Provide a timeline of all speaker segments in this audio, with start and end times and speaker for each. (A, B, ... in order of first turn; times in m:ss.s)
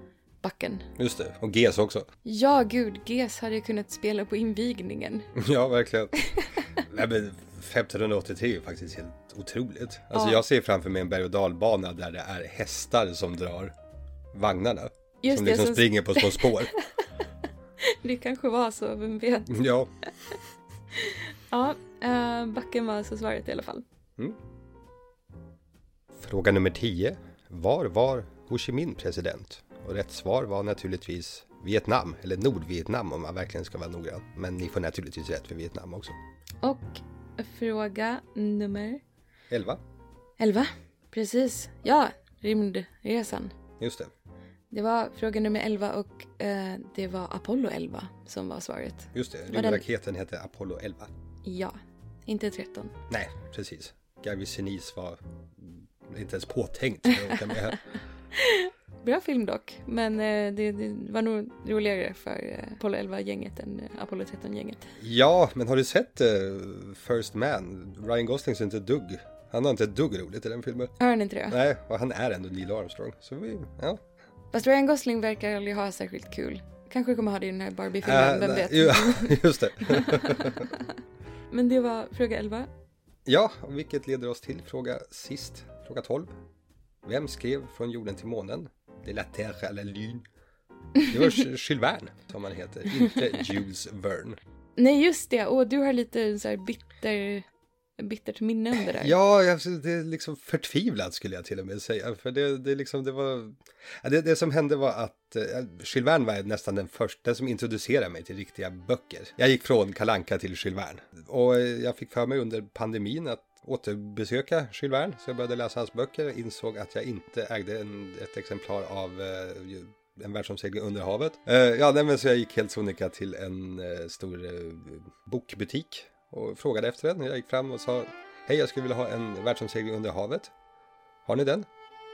0:00.4-0:00.9 A
0:01.0-0:02.1 B
0:02.2-0:05.3 A
0:05.4-0:06.2 B
0:06.8-0:13.7 B
0:10.1-0:10.4 A
0:14.3-0:16.7 B
0:15.2-0:16.7 A
0:17.8-0:19.6 A
0:19.5-0:19.9 B
0:21.0-0:23.8 A
0:26.2-0:36.2 B
0:36.6-0:39.0 A
0:39.5-0:39.8 B
0:40.4-0:43.6 A
0:43.8-0:44.1 B
0:44.7-0:49.8 A
0:49.2-0:51.1 B
0:51.4-0:51.8 A
0:52.3-0:52.9 A
0:53.1-0:57.8 B
0:58.3-1:04.8 A
1:05.0-1:10.9 B
1:11.0-1:11.6 A
1:11.5-1:14.0 B
1:14.5-1:20.8 A
1:18.0-1:20.7 B
1:21.5-1:22.7 A
1:23.3-1:26.3 B
1:27.0-1:30.2 B
1:31.1-1:34.4 B
1:34.8-1:37.4 A
1:38.0-1:39.1 A
1:38.9-2:10.5 B
2:11.3-2:11.7 B